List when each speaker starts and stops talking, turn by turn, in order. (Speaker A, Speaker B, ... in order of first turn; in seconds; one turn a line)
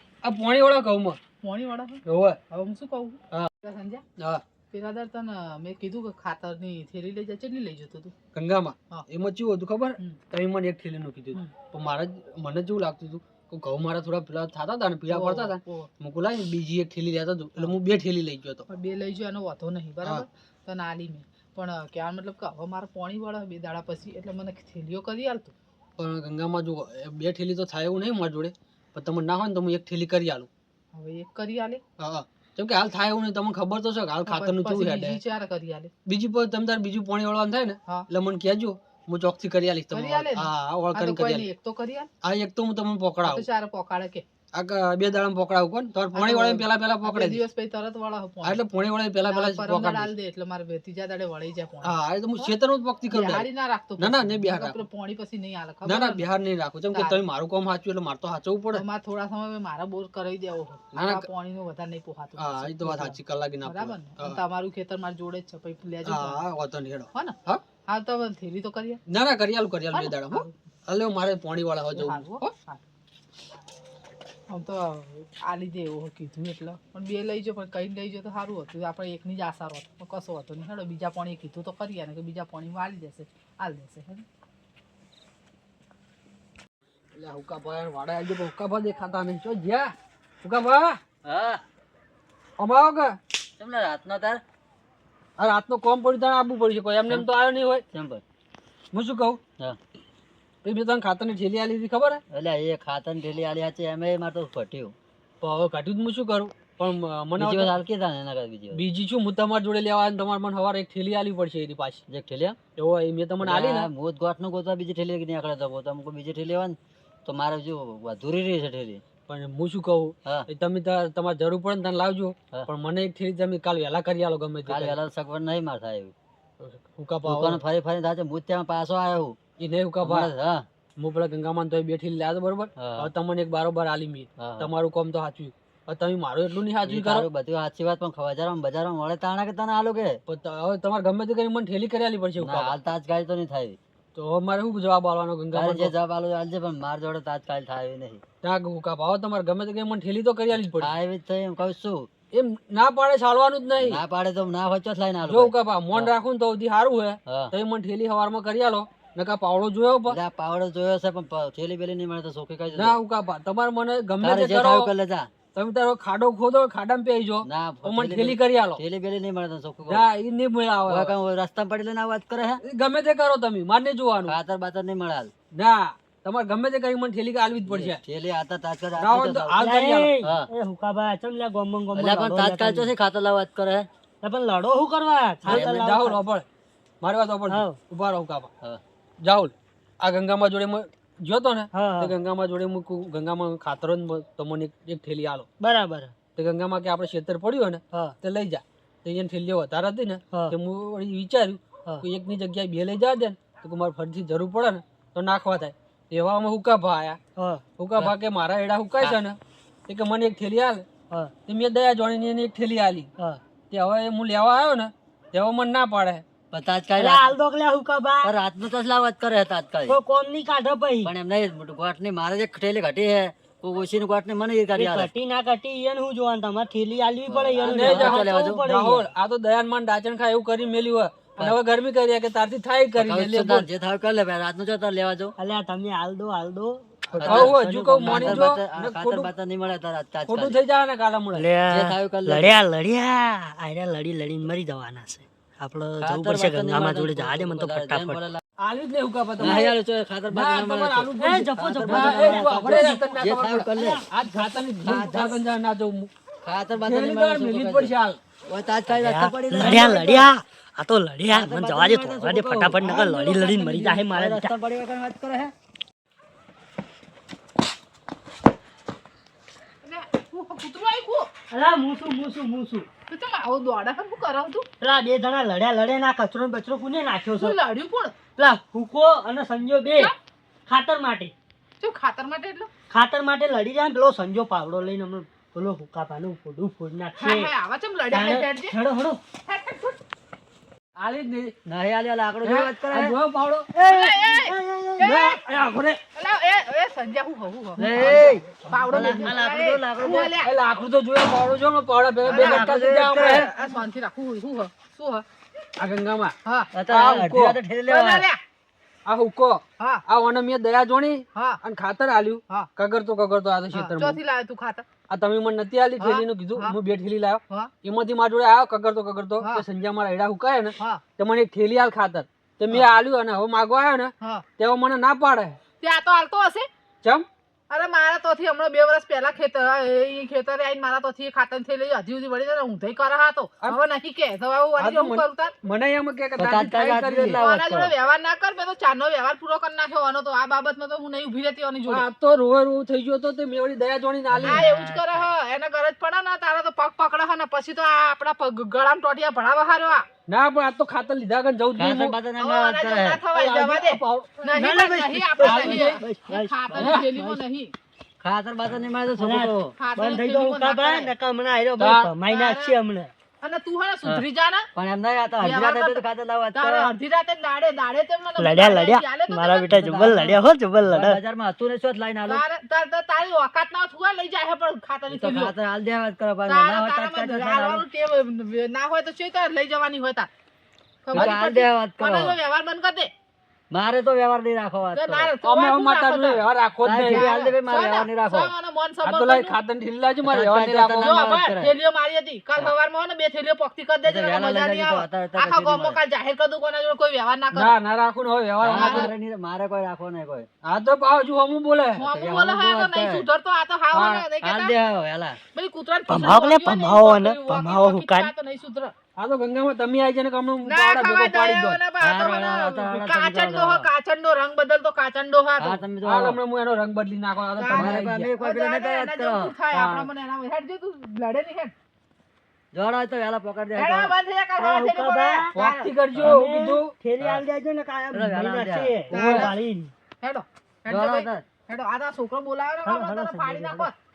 Speaker A: 0.2-1.2
Speaker B: 1.4-4.0
Speaker A: 2.0-2.4
Speaker B: 4.7-8.1
Speaker A: 8.3-18.7
Speaker B: 15.1-15.9
Speaker B: 18.7-25.5
Speaker A: 26.0-30.5
Speaker B: 30.9-31.8
Speaker A: 32.0-35.2
Speaker B: 34.2-35.9
Speaker A: 36.0-41.5
Speaker B: 39.9-42.1
Speaker A: 42.2-43.5
Speaker B: 43.2-44.2
Speaker A: 44.5-47.4
Speaker B: 46.1-48.6
Speaker A: 48.4-50.1
Speaker B: 49.2-52.5
Speaker A: 51.8-53.5
Speaker B: 53.1-56.2
Speaker A: 54.0-54.8
Speaker A: 55.8-58.8
Speaker B: 56.9-57.2
Speaker B: 58.7-66.4
Speaker A: 60.9-61.2
Speaker A: 62.4-64.4
Speaker A: 66.0-67.6
Speaker B: 67.1-69.0
Speaker A: 69.1-72.5
Speaker B: 69.9-70.5
Speaker B: 71.9-72.8
Speaker B: 74.5-84.2
Speaker A: 87.1-89.9
Speaker A: 90.4-91.0
Speaker C: 91.2-91.6
Speaker A: 92.6-93.2
Speaker C: 93.6-94.4
Speaker A: 95.4-97.8
Speaker C: 97.9-98.2
Speaker A: 98.9-99.4
Speaker A: 100.6-102.2
Speaker C: 102.3-104.9
Speaker A: 105.4-107.8
Speaker C: 107.4-108.8
Speaker A: 108.7-112.0
Speaker C: 112.1-112.6
Speaker A: 112.8-113.9
Speaker C: 113.4-119.0
Speaker A: 119.3-125.0
Speaker C: 124.7-126.1
Speaker A: 126.6-127.6
Speaker C: 127.2-129.4
Speaker A: 129.6-130.3
Speaker C: 130.0-130.6
Speaker A: 131.0-137.3
Speaker C: 132.8-133.1
Speaker C: 134.4-134.7
Speaker C: 136.8-140.2
Speaker A: 140.3-142.7
Speaker C: 142.4-143.8
Speaker A: 144.1-145.9
Speaker C: 145.5-148.2
Speaker A: 148.4-150.9
Speaker C: 150.5-152.1
Speaker A: 152.3-154.0
Speaker C: 153.8-156.1
Speaker A: 155.3-160.2
Speaker C: 157.3-157.5
Speaker C: 160.1-163.0
Speaker A: 162.7-164.9
Speaker C: 164.2-165.3
Speaker A: 165.5-168.8
Speaker C: 167.4-170.0
Speaker A: 169.9-171.1
Speaker C: 170.9-172.6
Speaker A: 172.6-174.3
Speaker C: 174.3-175.3
Speaker A: 175.5-178.0
Speaker C: 177.7-179.6
Speaker A: 179.0-180.1
Speaker D: 179.6-182.9
Speaker C: 180.2-180.5
Speaker C: 181.9-183.8
Speaker D: 184.2-186.2
Speaker A: 185.4-186.4
Speaker C: 185.4-185.8
Speaker A: 187.0-188.5
Speaker D: 187.5-187.8
Speaker A: 189.2-195.4
Speaker D: 191.7-192.1
Speaker D: 195.6-196.1
Speaker A: 196.3-207.2
Speaker A: 207.8-210.8
Speaker A: 211.5-213.1
Speaker A: 213.7-216.2
Speaker C: 216.5-217.3
Speaker D: 217.0-218.3
Speaker C: 218.2-219.9
Speaker D: 219.9-221.1
Speaker C: 221.0-225.1
Speaker D: 224.7-229.1
Speaker C: 227.2-228.6
Speaker A: 227.6-233.7
Speaker C: 232.9-235.3
Speaker D: 235.4-238.5
Speaker A: 237.1-239.3
Speaker C: 237.2-240.6
Speaker A: 240.3-241.5
Speaker D: 241.3-248.3
Speaker C: 241.7-242.5
Speaker C: 246.0-248.4
Speaker A: 248.6-249.8
Speaker C: 249.4-254.0
Speaker A: 250.3-256.1
Speaker D: 251.2-254.0
Speaker C: 254.8-255.4
Speaker C: 256.4-257.9
Speaker A: 256.8-258.2
Speaker C: 258.5-260.3
Speaker D: 258.9-264.5
Speaker C: 261.3-265.5
Speaker B: 269.8-271.3
Speaker D: 271.5-272.9
Speaker B: 273.1-274.7
Speaker D: 274.8-277.6
Speaker B: 277.4-278.2
Speaker D: 278.4-280.1
Speaker D: 280.7-281.3
Speaker B: 281.8-282.7
Speaker D: 282.9-287.5
Speaker B: 287.2-288.8
Speaker D: 288.1-289.2
Speaker B: 289.4-290.0
Speaker A: 291.0-291.5
Speaker C: 291.7-293.1
Speaker A: 292.4-293.7
Speaker D: 293.8-295.0
Speaker B: 293.8-295.4
Speaker A: 295.0-296.0
Speaker B: 296.1-300.5
Speaker C: 297.8-300.3
Speaker A: 297.9-299.3
Speaker A: 300.4-303.5
Speaker C: 302.2-303.5
Speaker B: 302.2-305.2
Speaker A: 305.8-306.3
Speaker B: 306.4-306.7
Speaker C: 306.7-308.2
Speaker A: 306.9-307.6
Speaker B: 307.9-308.4
Speaker A: 309.1-314.2
Speaker B: 311.3-311.6
Speaker B: 313.7-314.8
Speaker A: 315.1-325.6
Speaker B: 316.0-316.7
Speaker B: 320.8-321.0
Speaker B: 325.8-326.7
Speaker B: 327.7-335.5
Speaker A: 334.8-337.4
Speaker C: 336.4-337.9
Speaker B: 337.2-342.1
Speaker A: 341.9-344.7
Speaker C: 344.3-345.2
Speaker B: 344.4-350.0
Speaker A: 350.3-352.1
Speaker C: 351.8-353.2
Speaker B: 352.4-357.7
Speaker A: 353.3-354.6
Speaker D: 354.6-357.4
Speaker A: 355.4-356.0
Speaker A: 356.7-357.1
Speaker C: 358.2-359.7
Speaker D: 359.1-363.1
Speaker B: 359.8-361.1
Speaker A: 361.8-362.1
Speaker B: 362.2-362.7
Speaker B: 363.4-364.7
Speaker C: 364.7-366.9
Speaker B: 365.4-366.0
Speaker B: 366.5-369.9
Speaker D: 368.4-371.2
Speaker C: 369.7-372.4
Speaker B: 372.3-375.5
Speaker C: 375.1-377.8
Speaker B: 376.5-380.3
Speaker B: 381.0-383.1
Speaker C: 381.1-382.4
Speaker C: 383.7-385.3
Speaker B: 384.9-386.4
Speaker A: 385.4-387.3
Speaker C: 386.8-388.5
Speaker B: 387.0-389.6
Speaker A: 389.0-391.1
Speaker C: 390.2-391.7
Speaker B: 391.0-397.8
Speaker C: 394.0-396.0
Speaker A: 397.5-399.1
Speaker C: 398.6-400.5
Speaker B: 398.7-399.1
Speaker A: 400.6-402.0
Speaker B: 402.0-404.7
Speaker C: 402.0-403.2
Speaker A: 403.9-404.3
Speaker C: 404.4-405.4
Speaker B: 405.5-408.9
Speaker D: 406.1-408.3
Speaker A: 409.2-411.8
Speaker B: 410.6-415.8
Speaker C: 412.0-413.9
Speaker C: 415.6-416.4
Speaker A: 416.0-418.3
Speaker B: 417.6-421.7
Speaker C: 417.7-419.5
Speaker A: 419.7-420.1
Speaker C: 422.7-424.1
Speaker B: 423.8-426.0
Speaker D: 424.6-425.5
Speaker A: 425.5-426.9
Speaker D: 426.2-429.9
Speaker C: 428.1-428.9
Speaker B: 429.1-429.6
Speaker A: 429.1-429.5
Speaker B: 430.2-433.9
Speaker C: 430.9-431.4
Speaker D: 432.8-433.4
Speaker C: 433.4-433.9